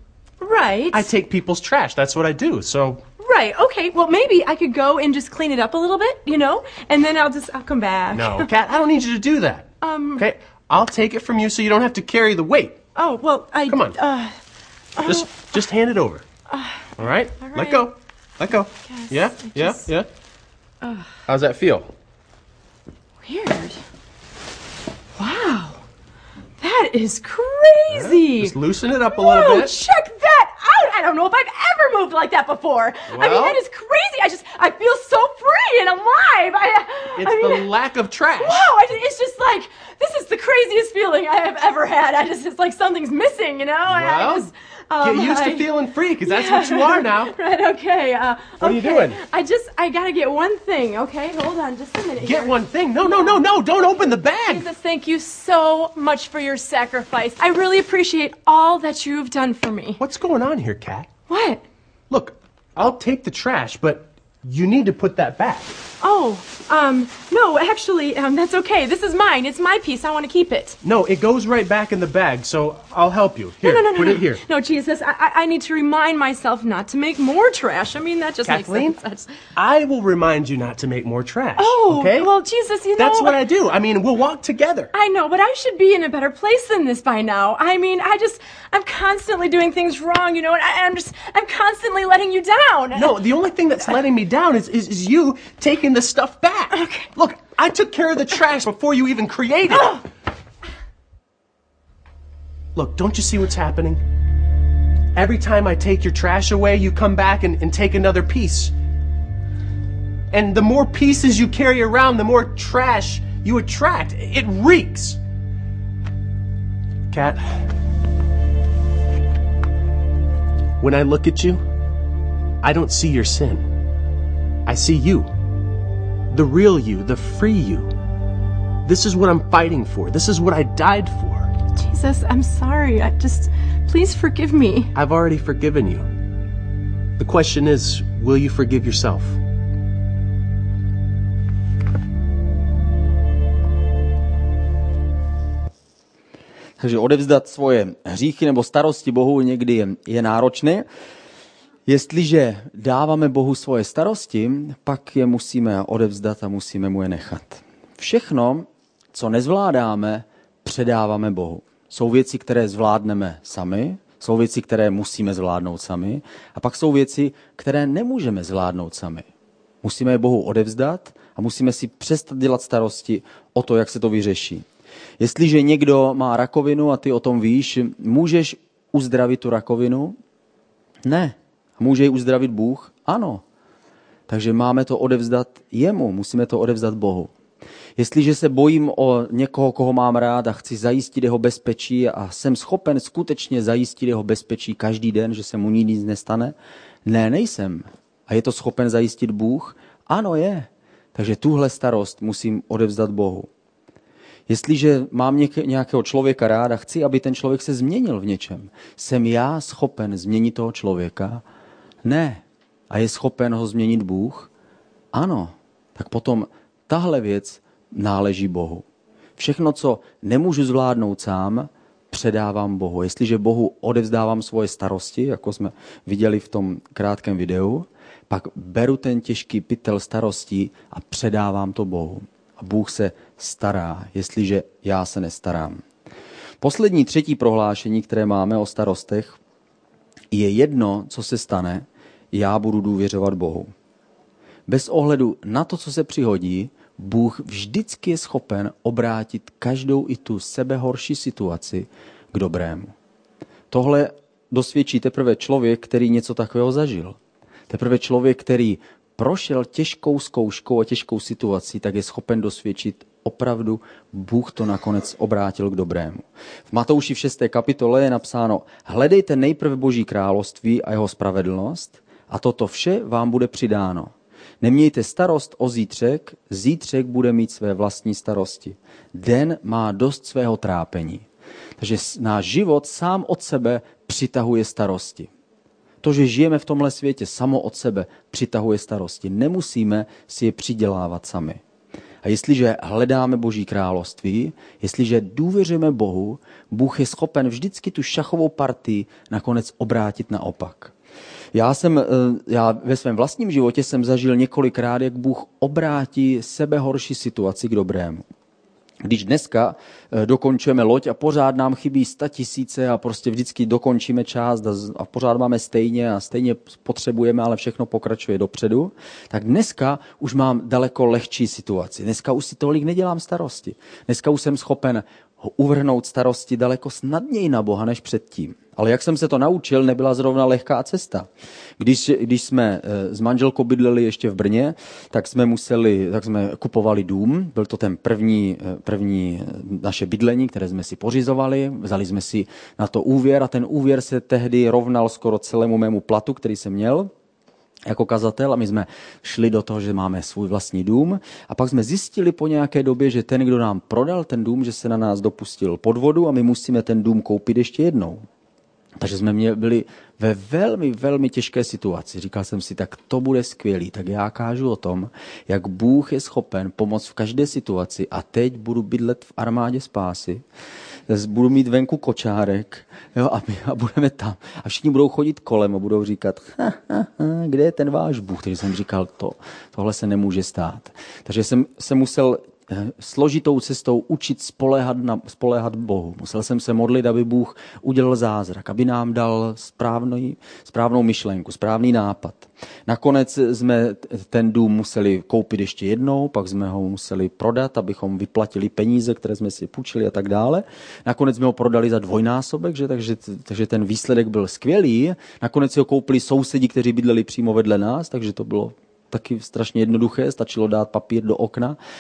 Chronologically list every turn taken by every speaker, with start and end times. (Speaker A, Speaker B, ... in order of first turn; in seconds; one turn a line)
Speaker A: 0.4-1.1
Speaker B: 0.9-3.0
Speaker A: 3.2-8.5
Speaker B: 8.1-12.8
Speaker A: 9.8-10.3
Speaker A: 13.0-14.4
Speaker B: 13.7-14.0
Speaker A: 14.9-15.5
Speaker B: 15.0-16.3
Speaker A: 16.5-17.9
Speaker B: 17.0-20.1
Speaker A: 18.9-19.9
Speaker A: 20.8-21.2
Speaker B: 21.3-21.9
Speaker A: 23.2-23.8
Speaker A: 25.2-25.8
Speaker A: 26.6-28.6
Speaker B: 27.9-29.8
Speaker A: 29.1-37.7
Speaker B: 33.1-33.6
Speaker B: 37.2-38.7
Speaker A: 38.4-45.7
Speaker B: 43.9-44.5
Speaker B: 45.0-47.4
Speaker A: 46.2-53.9
Speaker B: 48.6-49.2
Speaker B: 52.2-54.7
Speaker A: 54.4-60.0
Speaker B: 60.0-61.1
Speaker A: 61.3-61.6
Speaker B: 62.1-65.7
Speaker A: 66.0-70.8
Speaker B: 70.8-74.4
Speaker A: 73.6-79.4
Speaker B: 78.4-79.0
Speaker B: 79.5-82.3
Speaker A: 81.6-83.4
Speaker B: 83.0-84.9
Speaker A: 84.9-93.2
Speaker B: 92.9-100.0
Speaker A: 96.7-97.1
Speaker B: 102.8-104.0
Speaker B: 105.1-108.7
Speaker B: 110.3-115.2
Speaker B: 117.1-117.7
Speaker B: 120.8-121.6
Speaker B: 122.6-123.7
Speaker B: 124.7-125.3
Speaker B: 126.3-127.9
Speaker B: 128.8-131.5
Speaker A: 131.8-134.9
Speaker B: 134.9-136.1
Speaker B: 137.2-139.4
Speaker C: 146.8-150.8
Speaker C: 151.9-169.2
Speaker C: 169.8-174.7
Speaker C: 175.2-180.2
Speaker C: 181.1-183.4
Speaker C: 184.3-187.3
Speaker C: 188.0-196.6
Speaker C: 197.1-203.5
Speaker C: 204.5-211.4
Speaker C: 212.1-214.5
Speaker C: 215.1-218.8
Speaker C: 219.4-235.8
Speaker C: 236.6-239.4
Speaker C: 240.3-243.7
Speaker C: 244.7-252.9
Speaker C: 253.7-257.2
Speaker C: 257.7-281.2
Speaker C: 281.8-285.3
Speaker C: 286.0-291.6
Speaker C: 292.2-300.9
Speaker C: 301.5-308.2
Speaker C: 309.0-331.3
Speaker C: 331.8-347.1
Speaker C: 347.9-358.2
Speaker C: 359.0-370.4
Speaker C: 371.1-411.8